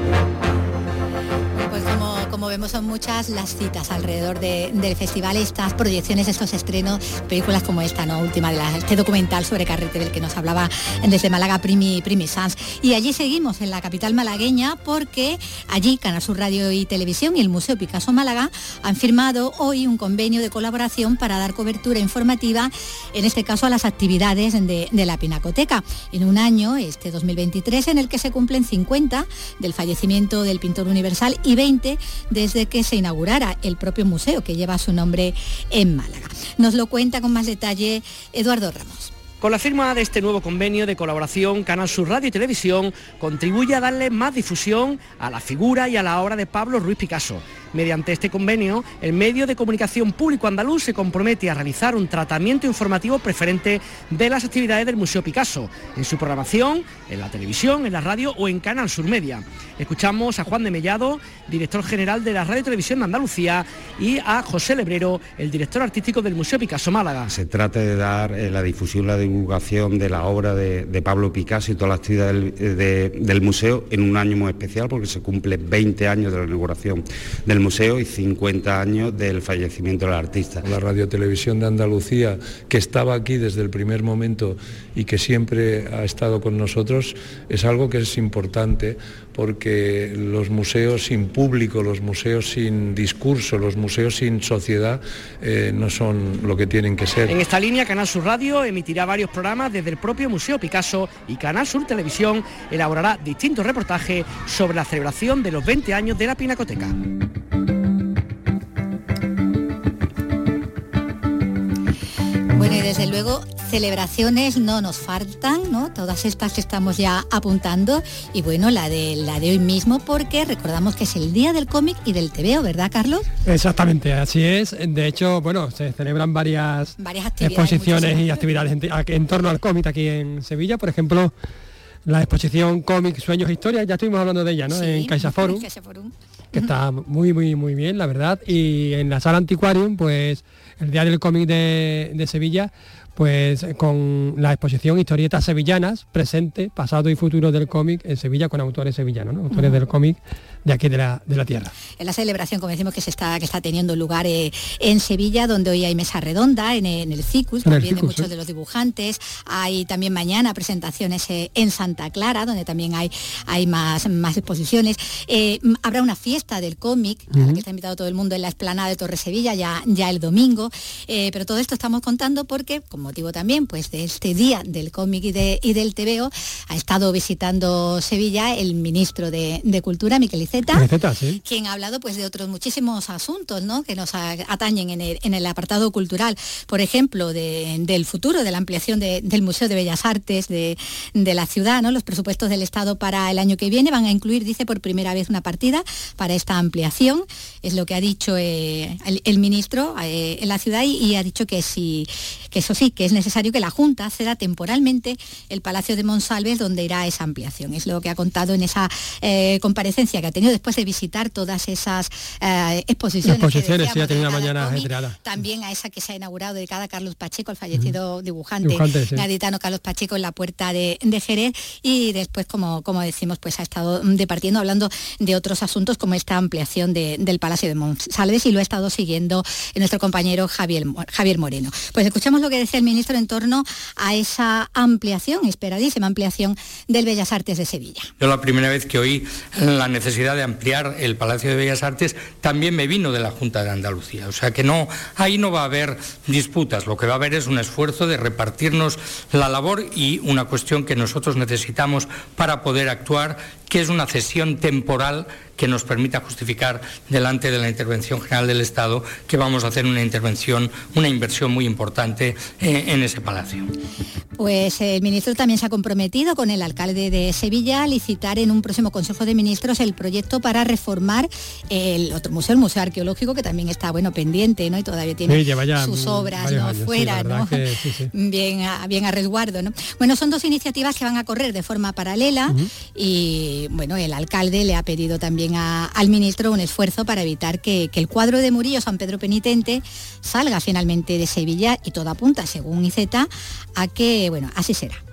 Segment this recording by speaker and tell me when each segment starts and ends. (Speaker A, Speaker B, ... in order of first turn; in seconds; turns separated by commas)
Speaker A: 1.6-39.1, Speaker B: 40.9-42.0, Speaker B: 42.9-46.6, Speaker B: 47.1-67.1, Speaker C: 67.3-80.6, Speaker D: 80.6-97.4, Speaker A: 112.5-123.3, Speaker E: 123.5-131.3, Speaker A: 127.0-128.5, Speaker E: 132.1-135.7, Speaker A: 134.7-136.7, Speaker E: 136.5-151.7, Speaker A: 149.5-149.8, Speaker A: 152.0-180.9, Speaker E: 157.6-158.3, Speaker E: 167.3-167.6, Speaker E: 180.7-181.4, Speaker A: 181.4-238.1, Speaker E: 213.2-215.2, Speaker E: 218.6-219.3, Speaker F: 238.2-263.7, Speaker A: 264.4-295.0, Speaker E: 275.3-278.1